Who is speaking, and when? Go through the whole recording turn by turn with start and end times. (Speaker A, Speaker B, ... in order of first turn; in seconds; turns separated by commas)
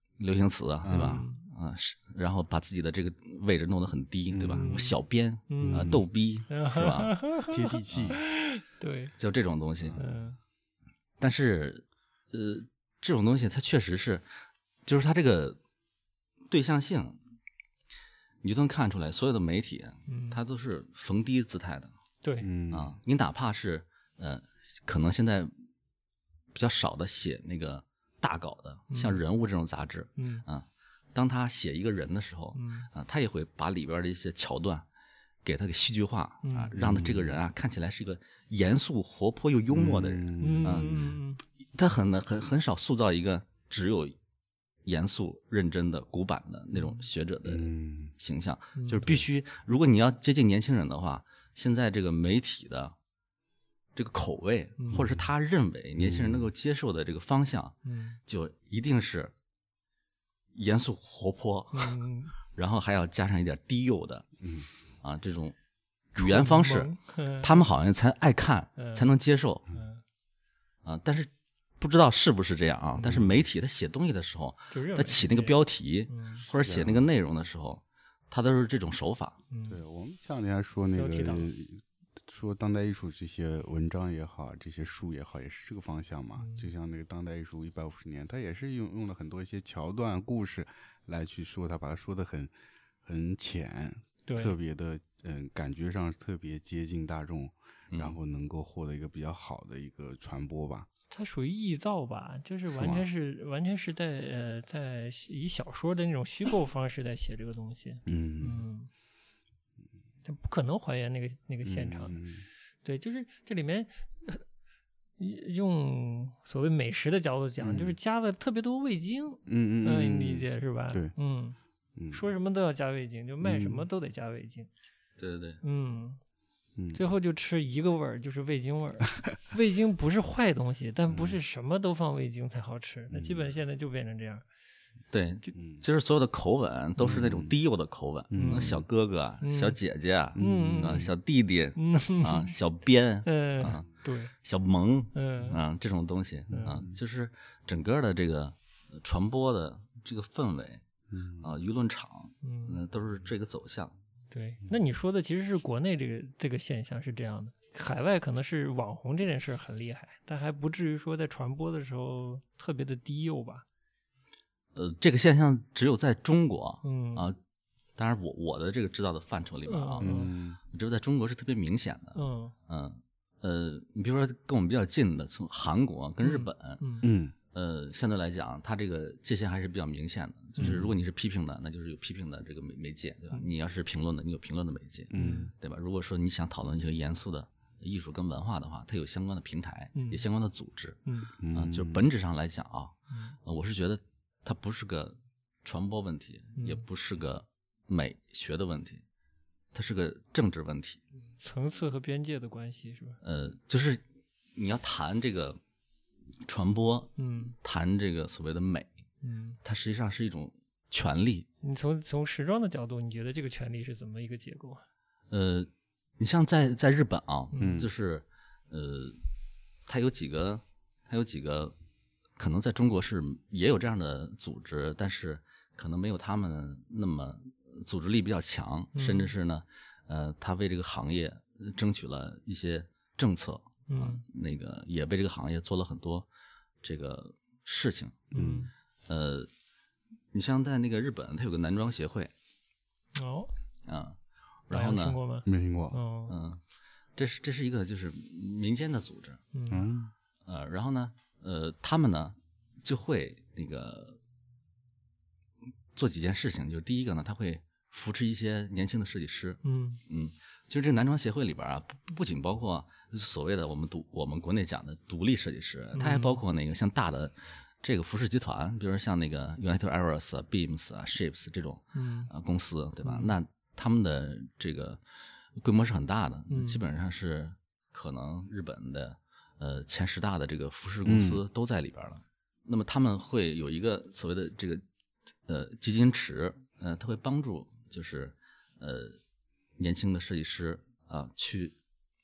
Speaker A: 0.2-7.1, Speaker B: 0.8-1.2, Speaker C: 0.9-1.4, Speaker B: 4.3-4.8, Speaker C: 4.6-5.9, Speaker B: 5.6-6.0, Speaker C: 6.5-9.1, Speaker B: 7.5-8.2, Speaker A: 7.9-8.2, Speaker A: 9.2-10.0, Speaker C: 9.9-10.4, Speaker A: 11.2-14.2, Speaker A: 14.8-15.6, Speaker A: 16.5-17.2, Speaker A: 18.4-21.9, Speaker C: 20.1-20.4, Speaker C: 22.2-22.5, Speaker B: 22.4-23.0, Speaker A: 22.7-25.5, Speaker A: 26.5-34.9, Speaker C: 28.9-29.2, Speaker C: 30.2-30.4, Speaker C: 32.5-32.9, Speaker A: 35.4-41.0, Speaker C: 36.4-36.8, Speaker B: 36.8-37.4, Speaker B: 39.7-41.1, Speaker C: 40.4-41.4, Speaker A: 41.7-44.1, Speaker A: 44.8-52.9, Speaker B: 47.4-48.1, Speaker C: 48.7-49.0, Speaker A: 53.9-57.8, Speaker B: 54.9-55.3, Speaker B: 56.0-56.5, Speaker C: 57.8-58.2, Speaker A: 58.3-59.3, Speaker A: 60.5-62.0, Speaker C: 61.7-62.3, Speaker A: 62.5-64.3, Speaker B: 64.4-64.7, Speaker A: 65.0-65.5, Speaker A: 66.1-69.6, Speaker C: 66.2-67.6, Speaker C: 68.8-69.1, Speaker C: 69.7-70.0, Speaker A: 70.8-79.4, Speaker B: 73.0-73.4, Speaker C: 74.7-76.4, Speaker B: 76.4-77.0, Speaker C: 79.5-79.8, Speaker B: 79.7-92.5, Speaker C: 80.9-81.5, Speaker C: 86.4-86.7, Speaker B: 93.0-100.9, Speaker C: 94.3-94.5, Speaker A: 97.9-98.2, Speaker C: 101.1-108.9, Speaker B: 102.7-103.1, Speaker B: 108.0-108.6, Speaker C: 110.2-112.2, Speaker B: 111.6-112.5, Speaker C: 112.8-114.4, Speaker C: 115.2-121.6, Speaker B: 117.6-118.0, Speaker B: 119.5-121.1, Speaker B: 122.0-122.2, Speaker C: 122.1-124.7, Speaker B: 123.4-123.9, Speaker A: 125.2-125.6, Speaker C: 125.6-126.2, Speaker C: 126.9-134.4, Speaker B: 131.1-131.4, Speaker B: 133.1-133.5, Speaker A: 135.1-150.8, Speaker B: 135.5-135.8, Speaker B: 137.0-137.5, Speaker B: 138.3-138.8, Speaker C: 138.3-138.8, Speaker C: 139.4-139.8, Speaker B: 140.3-141.1, Speaker C: 140.3-141.1, Speaker C: 141.8-142.6, Speaker C: 143.2-144.3, Speaker C: 145.1-145.6, Speaker C: 146.5-146.8, Speaker B: 146.6-146.9, Speaker B: 151.1-151.5, Speaker A: 151.4-153.9, Speaker C: 152.4-152.8, Speaker C: 154.3-163.6, Speaker A: 164.7-167.4, Speaker C: 166.8-167.3, Speaker A: 167.9-176.8, Speaker C: 169.7-170.3, Speaker B: 170.0-170.6, Speaker C: 172.1-172.5, Speaker C: 176.2-177.1, Speaker B: 177.0-177.3, Speaker A: 177.5-191.0, Speaker B: 180.6-180.9, Speaker B: 185.1-185.5, Speaker C: 185.2-185.5, Speaker C: 189.9-190.2, Speaker C: 191.1-191.3, Speaker B: 191.4-192.1, Speaker A: 191.5-199.0, Speaker C: 193.1-193.4, Speaker C: 196.6-196.8, Speaker A: 199.7-201.0, Speaker C: 201.4-203.2, Speaker A: 203.2-204.0, Speaker A: 204.6-205.6, Speaker A: 206.4-208.9, Speaker C: 207.2-207.6, Speaker C: 209.2-209.6, Speaker A: 209.6-211.5, Speaker C: 211.6-214.8, Speaker A: 215.3-219.2, Speaker C: 217.5-217.8, Speaker B: 217.6-217.9, Speaker A: 219.9-221.7, Speaker A: 222.4-236.3, Speaker C: 228.9-229.3, Speaker C: 233.9-234.2, Speaker A: 236.8-238.5, Speaker C: 238.3-238.7, Speaker B: 238.3-238.7, Speaker A: 239.1-239.5, Speaker A: 240.3-242.3, Speaker C: 243.1-243.5, Speaker A: 243.8-244.2, Speaker A: 244.7-245.2, Speaker C: 244.7-246.3, Speaker B: 245.4-246.0, Speaker A: 246.3-246.6, Speaker A: 247.2-249.4, Speaker C: 249.5-249.9, Speaker B: 249.7-250.1, Speaker A: 250.4-254.2, Speaker A: 255.9-275.0, Speaker C: 259.6-260.0, Speaker C: 265.9-266.4, Speaker C: 271.9-272.3, Speaker C: 273.0-273.3, Speaker A: 275.6-284.8, Speaker C: 276.5-276.8, Speaker B: 281.0-281.4, Speaker A: 285.5-289.2, Speaker A: 289.8-291.7